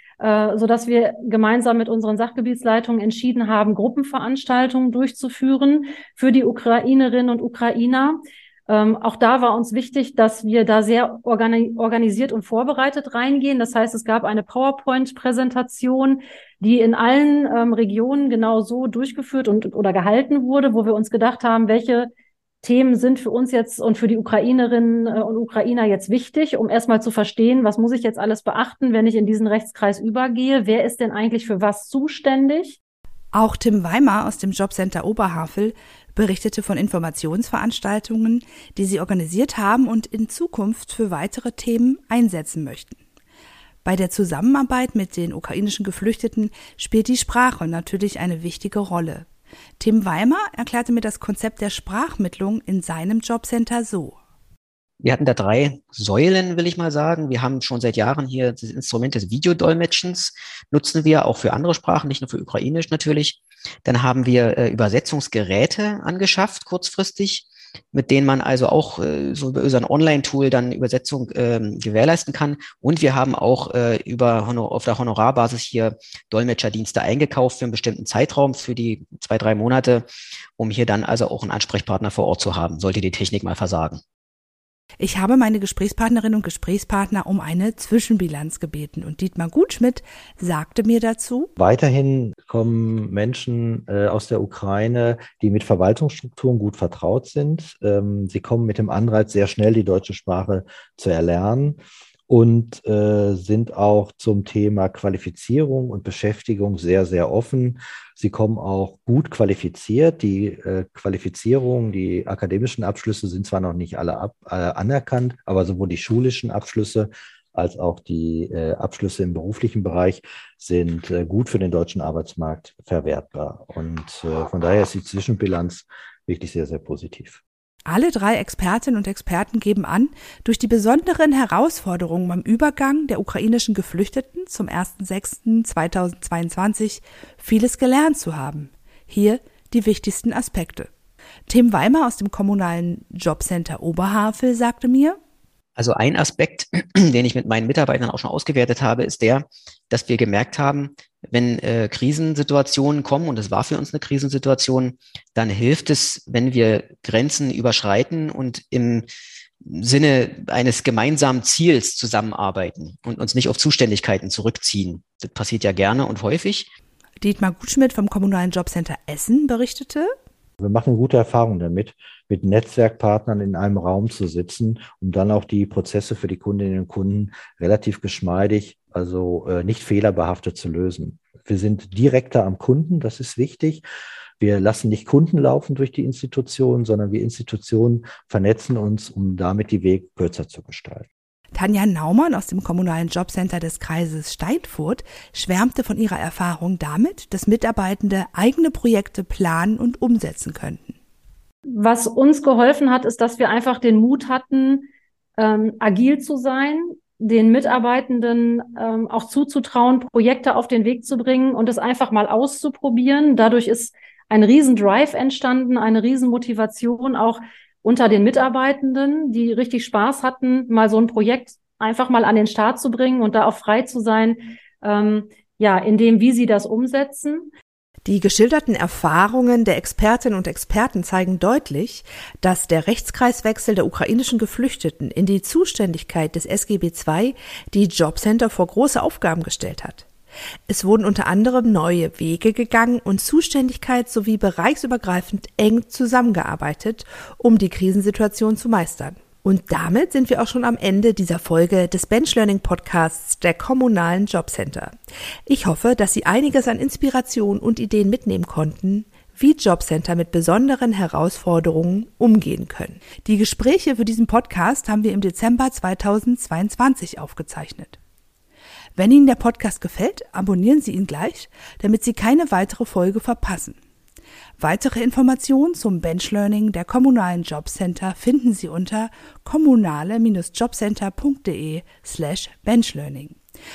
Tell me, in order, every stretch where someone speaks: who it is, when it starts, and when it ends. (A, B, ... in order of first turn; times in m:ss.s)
0:00.2-0:08.1 A
0:08.7-0:22.0 A
0:22.6-0:32.8 A
0:33.4-0:43.0 B
0:43.8-0:49.2 B
0:49.8-0:54.2 B
0:55.0-1:20.1 C
1:20.6-1:24.0 C
1:25.0-1:31.5 B
1:31.6-2:07.4 D
2:07.9-2:20.9 B
2:21.5-2:25.2 B
2:25.8-2:39.1 C
2:39.6-2:46.7 C
2:47.2-2:50.1 B
2:50.6-3:03.8 D
3:04.4-3:11.1 D
3:11.6-3:20.9 B
3:22.0-3:24.7 A
3:25.4-3:47.3 A
3:48.1-4:00.0 B
4:00.7-4:15.0 B
4:15.5-4:28.0 B
4:29.0-4:33.8 B
4:34.6-4:43.4 B